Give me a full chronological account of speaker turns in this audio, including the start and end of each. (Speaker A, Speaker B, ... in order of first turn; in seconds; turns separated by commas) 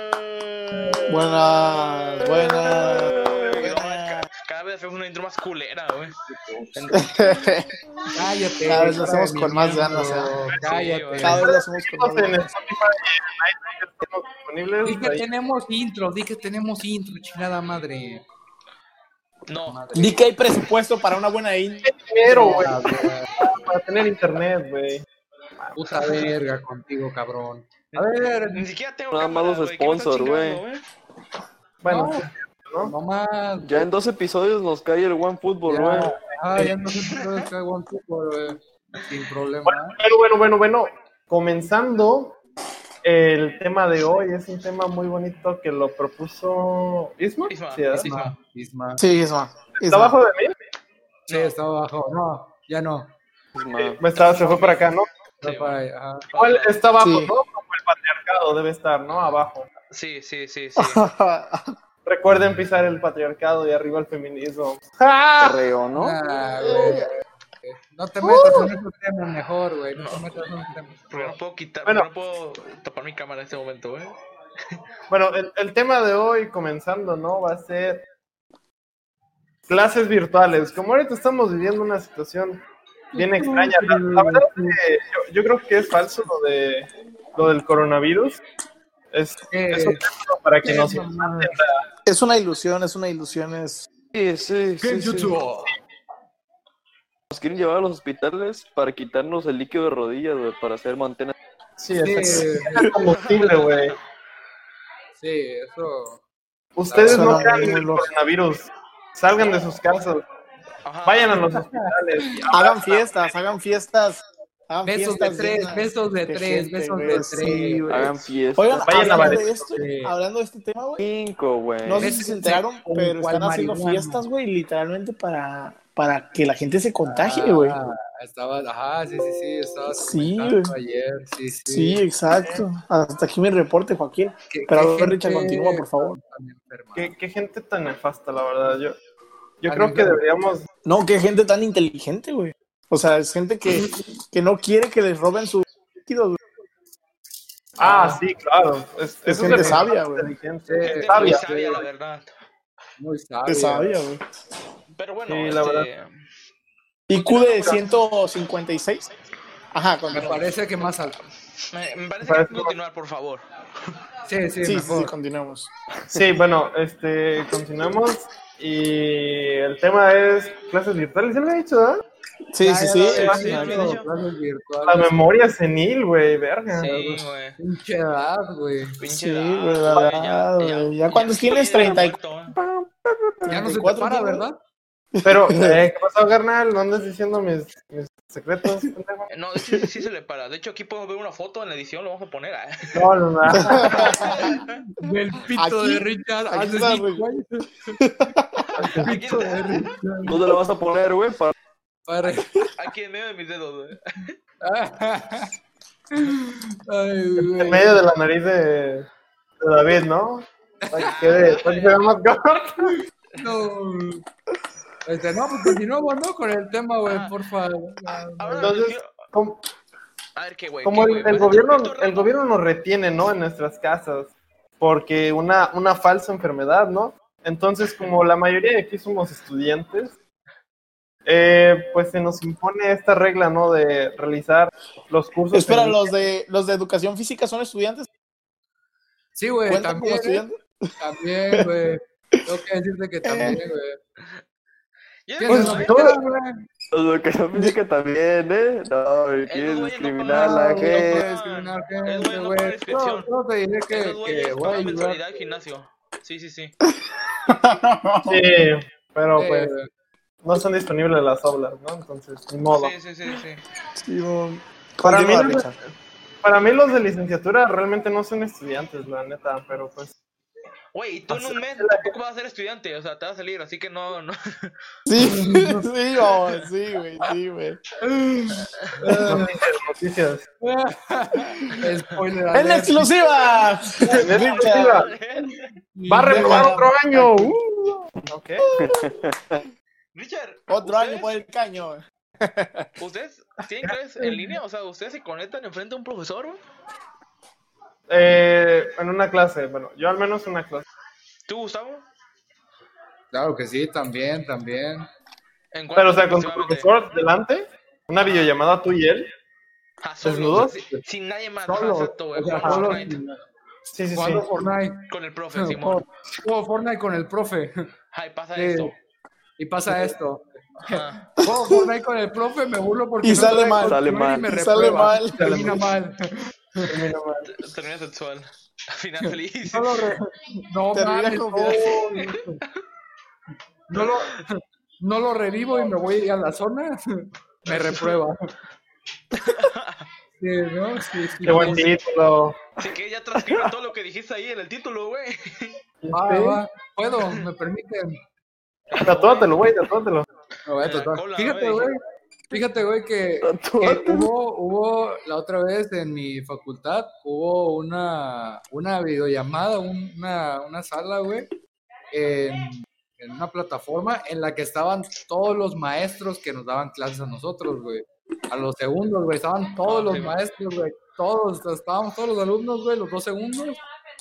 Speaker A: 0.9-1.1, Speaker B: 1.1-4.2, Speaker C: 2.8-6.2, Speaker A: 6.3-7.0, Speaker C: 6.8-7.0, Speaker B: 6.9-7.7, Speaker A: 8.1-11.5, Speaker B: 8.7-10.3, Speaker C: 10.6-11.4, Speaker B: 11.2-12.5, Speaker D: 11.4-15.2, Speaker A: 14.8-18.3, Speaker C: 19.5-19.8, Speaker A: 19.7-20.2, Speaker B: 19.9-21.9, Speaker D: 21.9-25.0, Speaker A: 22.2-23.3, Speaker D: 25.6-26.3, Speaker A: 25.8-28.7, Speaker C: 27.9-30.8, Speaker E: 29.1-30.6, Speaker D: 31.8-32.9, Speaker A: 31.9-32.3, Speaker A: 32.8-33.9, Speaker E: 33.6-36.2, Speaker A: 35.7-40.0, Speaker D: 39.7-42.4, Speaker D: 43.0-48.1, Speaker C: 47.5-48.3, Speaker A: 48.0-49.0, Speaker B: 49.0-50.1, Speaker D: 49.8-50.6, Speaker C: 51.3-51.5, Speaker A: 51.3-53.1, Speaker E: 53.5-54.0, Speaker D: 54.0-55.1, Speaker C: 54.1-55.8, Speaker A: 55.4-56.3, Speaker C: 56.3-56.8, Speaker D: 56.4-59.7, Speaker B: 57.0-57.3, Speaker C: 59.9-61.1, Speaker B: 60.8-61.8, Speaker D: 62.1-65.7, Speaker E: 65.4-66.2, Speaker A: 66.0-67.1, Speaker D: 66.6-67.0, Speaker A: 67.7-71.3, Speaker D: 68.2-68.7, Speaker C: 70.0-70.3, Speaker C: 71.1-74.2, Speaker D: 75.1-78.0, Speaker D: 79.7-82.6, Speaker A: 83.1-84.8, Speaker D: 83.2-88.4, Speaker D: 89.1-91.8, Speaker A: 89.5-90.0, Speaker A: 90.6-91.6, Speaker B: 92.1-93.9, Speaker E: 94.1-95.4, Speaker A: 94.8-95.8, Speaker E: 97.3-101.3, Speaker D: 101.8-104.0, Speaker A: 102.0-102.9, Speaker C: 103.0-104.0, Speaker A: 105.2-106.2, Speaker D: 106.8-110.2, Speaker A: 106.9-107.6, Speaker B: 107.0-108.1, Speaker C: 110.8-111.5, Speaker D: 111.0-112.6, Speaker A: 111.4-112.5, Speaker B: 112.5-121.0, Speaker C: 112.5-113.5, Speaker A: 114.8-118.2, Speaker E: 117.9-118.9, Speaker A: 118.8-120.1, Speaker D: 118.9-119.7, Speaker E: 121.0-122.2, Speaker B: 121.8-127.8, Speaker A: 122.0-124.2, Speaker A: 127.0-132.0, Speaker B: 130.0-130.7, Speaker B: 131.6-136.2, Speaker A: 134.5-137.1, Speaker D: 137.0-139.0, Speaker D: 139.6-140.7, Speaker A: 139.7-140.2, Speaker B: 140.8-146.4, Speaker D: 147.8-151.4, Speaker A: 147.8-148.2, Speaker B: 149.3-150.3, Speaker A: 149.4-149.8, Speaker A: 150.7-151.9, Speaker C: 150.8-152.3, Speaker A: 153.0-153.9, Speaker B: 153.5-154.2, Speaker C: 155.0-156.1, Speaker D: 155.3-155.9, Speaker B: 157.1-159.1, Speaker B: 159.7-160.5, Speaker A: 160.1-161.2, Speaker C: 161.7-163.4, Speaker D: 162.2-162.7, Speaker A: 164.3-165.1, Speaker B: 164.6-166.2, Speaker D: 166.1-172.0, Speaker B: 172.5-173.4, Speaker A: 172.6-175.2, Speaker D: 172.7-174.0, Speaker C: 173.1-174.1, Speaker D: 174.8-176.9, Speaker C: 176.7-177.6, Speaker A: 176.8-179.0, Speaker C: 179.0-182.6, Speaker B: 179.1-184.4, Speaker A: 183.5-184.6, Speaker B: 185.2-185.8, Speaker D: 185.2-189.3, Speaker C: 189.3-193.1, Speaker B: 189.6-189.9, Speaker D: 192.9-194.4, Speaker B: 193.6-194.5, Speaker A: 193.6-198.0, Speaker C: 193.8-194.7, Speaker B: 195.5-197.3, Speaker B: 198.0-198.7, Speaker A: 198.8-200.4, Speaker D: 198.8-199.1, Speaker C: 198.9-199.9, Speaker E: 200.3-201.5, Speaker A: 202.1-202.7, Speaker C: 202.8-204.4, Speaker A: 204.6-205.5, Speaker A: 206.1-208.0, Speaker D: 207.4-209.1, Speaker D: 209.6-213.0, Speaker A: 210.8-211.1, Speaker C: 211.1-212.1, Speaker A: 213.4-214.2, Speaker A: 215.1-218.8, Speaker C: 217.1-217.3, Speaker C: 218.4-219.2, Speaker D: 218.6-219.6, Speaker C: 220.4-222.3, Speaker D: 220.8-230.2, Speaker D: 231.3-236.1, Speaker B: 235.5-238.1, Speaker A: 239.3-240.4, Speaker B: 239.7-240.6, Speaker A: 241.0-244.0, Speaker B: 243.2-243.6, Speaker C: 245.3-246.0, Speaker A: 245.4-246.6, Speaker D: 245.5-246.2, Speaker E: 246.9-251.2, Speaker C: 249.5-253.3, Speaker A: 250.3-255.4, Speaker C: 253.9-256.8, Speaker B: 257.5-258.5, Speaker D: 258.3-259.7, Speaker A: 259.4-259.9, Speaker D: 260.4-262.9, Speaker C: 262.7-263.6, Speaker B: 263.9-265.8, Speaker D: 265.0-265.7, Speaker D: 266.4-270.1, Speaker C: 270.9-274.7, Speaker D: 271.3-272.1, Speaker B: 275.1-277.8, Speaker A: 275.2-275.9, Speaker A: 278.0-279.6, Speaker D: 279.3-280.4, Speaker A: 280.6-283.1, Speaker C: 281.8-282.2, Speaker B: 282.5-285.1, Speaker A: 284.0-284.3, Speaker D: 284.1-285.1, Speaker C: 284.3-285.6, Speaker A: 285.9-286.8, Speaker D: 286.1-287.6, Speaker B: 286.2-288.1, Speaker D: 288.3-288.7, Speaker B: 288.7-289.1, Speaker E: 288.7-289.7, Speaker C: 290.1-291.4, Speaker B: 290.7-292.9, Speaker C: 293.0-296.6, Speaker A: 294.2-294.5, Speaker D: 298.1-300.9, Speaker C: 301.5-302.0, Speaker A: 303.3-305.1, Speaker C: 305.7-306.9, Speaker D: 306.0-309.3, Speaker C: 308.2-308.5, Speaker C: 310.0-313.2, Speaker D: 310.2-310.8, Speaker A: 310.7-311.0, Speaker D: 311.7-312.9, Speaker A: 312.3-313.4, Speaker D: 313.9-314.7, Speaker A: 314.1-317.9, Speaker C: 315.1-316.0, Speaker C: 318.1-319.0, Speaker A: 318.6-318.9, Speaker A: 319.6-327.0, Speaker C: 320.8-321.2, Speaker B: 321.4-321.9, Speaker B: 323.2-325.7, Speaker E: 323.8-324.6, Speaker D: 325.3-325.8, Speaker D: 326.9-327.5, Speaker C: 327.5-330.1, Speaker A: 329.2-332.6, Speaker B: 330.9-331.9, Speaker C: 332.1-332.4, Speaker A: 333.9-338.5, Speaker C: 333.9-334.2, Speaker C: 339.4-340.1, Speaker A: 340.4-341.9, Speaker D: 341.4-342.6, Speaker C: 342.8-345.8, Speaker D: 346.0-346.6, Speaker A: 346.1-348.2, Speaker C: 348.9-349.7, Speaker D: 349.0-350.3, Speaker A: 350.7-361.5, Speaker C: 350.8-351.9, Speaker E: 353.4-354.3, Speaker A: 362.1-373.8, Speaker C: 369.9-370.4